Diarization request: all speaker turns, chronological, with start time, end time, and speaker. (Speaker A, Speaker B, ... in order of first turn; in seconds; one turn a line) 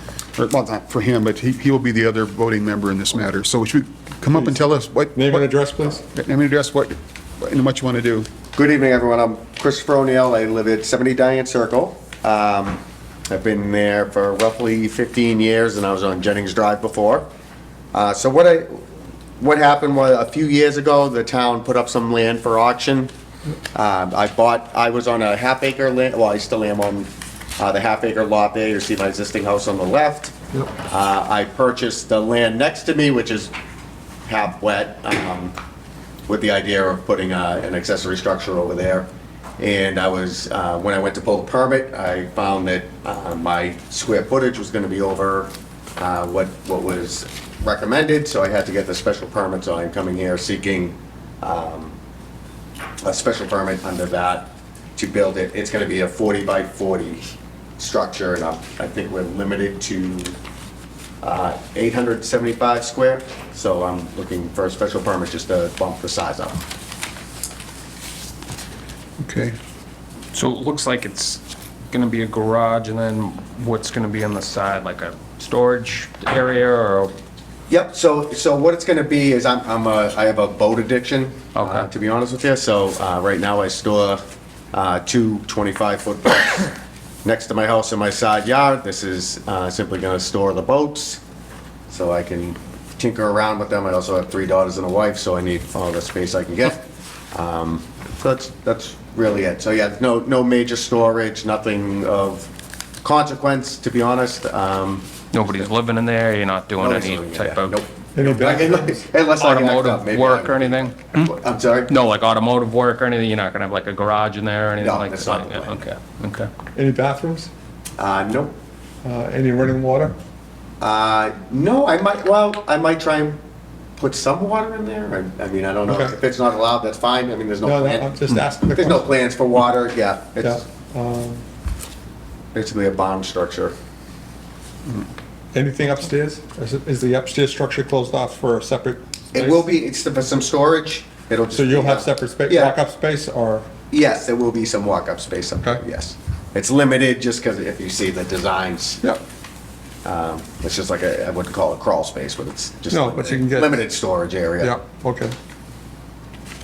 Speaker A: 0.4-5.5
Speaker B: 5.2-6.0
Speaker A: 6.1-8.3
Speaker C: 8.5-17.3
Speaker C: 17.9-18.8
Speaker C: 19.4-23.1
Speaker C: 23.7-33.5
Speaker C: 34.3-35.5
Speaker C: 36.3-39.1
Speaker C: 39.6-52.0
Speaker C: 53.0-57.3
Speaker C: 57.8-60.3
Speaker C: 61.2-66.6
Speaker A: 69.2-69.6
Speaker D: 70.3-77.1
Speaker C: 77.7-91.2
Speaker D: 81.5-81.9
Speaker C: 91.9-102.5
Speaker C: 103.0-105.1
Speaker D: 105.3-107.8
Speaker C: 106.8-112.0
Speaker B: 108.2-109.0
Speaker D: 109.3-111.3
Speaker D: 111.9-116.5
Speaker C: 114.8-115.8
Speaker B: 116.8-117.5
Speaker C: 118.0-118.5
Speaker B: 119.0-120.2
Speaker C: 120.8-123.4
Speaker C: 124.0-130.6
Speaker B: 125.9-126.2
Speaker B: 127.6-129.1
Speaker B: 130.4-131.4
Speaker C: 132.5-133.7
Speaker B: 135.5-139.7
Speaker C: 139.3-142.8
Speaker B: 141.5-143.7
Speaker C: 143.9-149.0
Speaker C: 150.1-154.8
Speaker B: 152.9-153.8
Speaker B: 154.6-155.3